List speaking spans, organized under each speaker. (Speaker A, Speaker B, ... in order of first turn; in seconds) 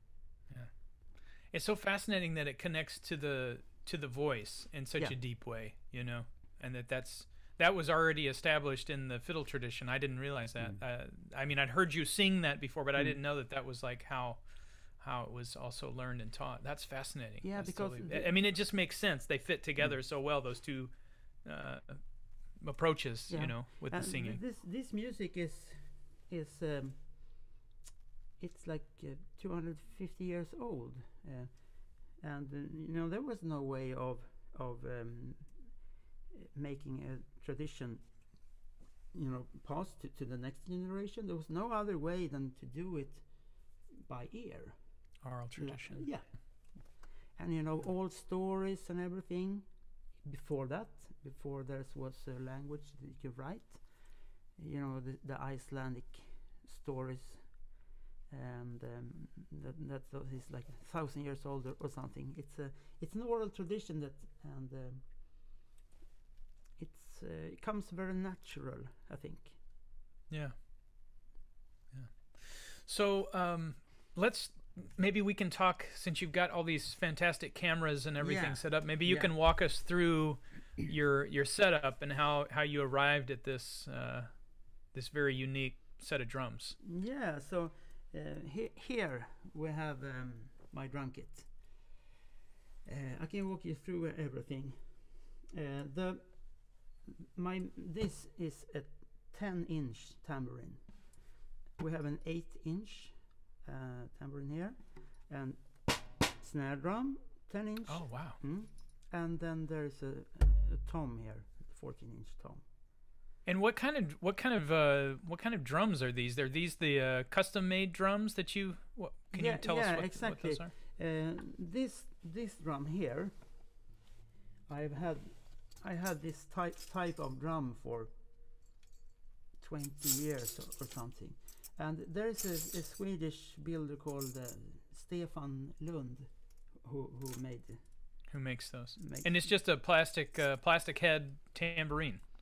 Speaker A: 0.5-24.4, 45.2-46.1, 70.3-70.5, 71.9-86.8, 107.9-108.4, 113.5-120.7, 138.3-142.2
Speaker B: 12.9-13.2, 17.4-18.3, 23.3-27.5, 28.4-35.8, 36.3-38.0, 39.1-65.1, 66.8-69.6, 78.2-79.3, 86.8-91.7, 92.8-101.2, 101.8-112.6, 119.3-123.4, 124.7-128.1, 129.6-137.8, 139.0-139.5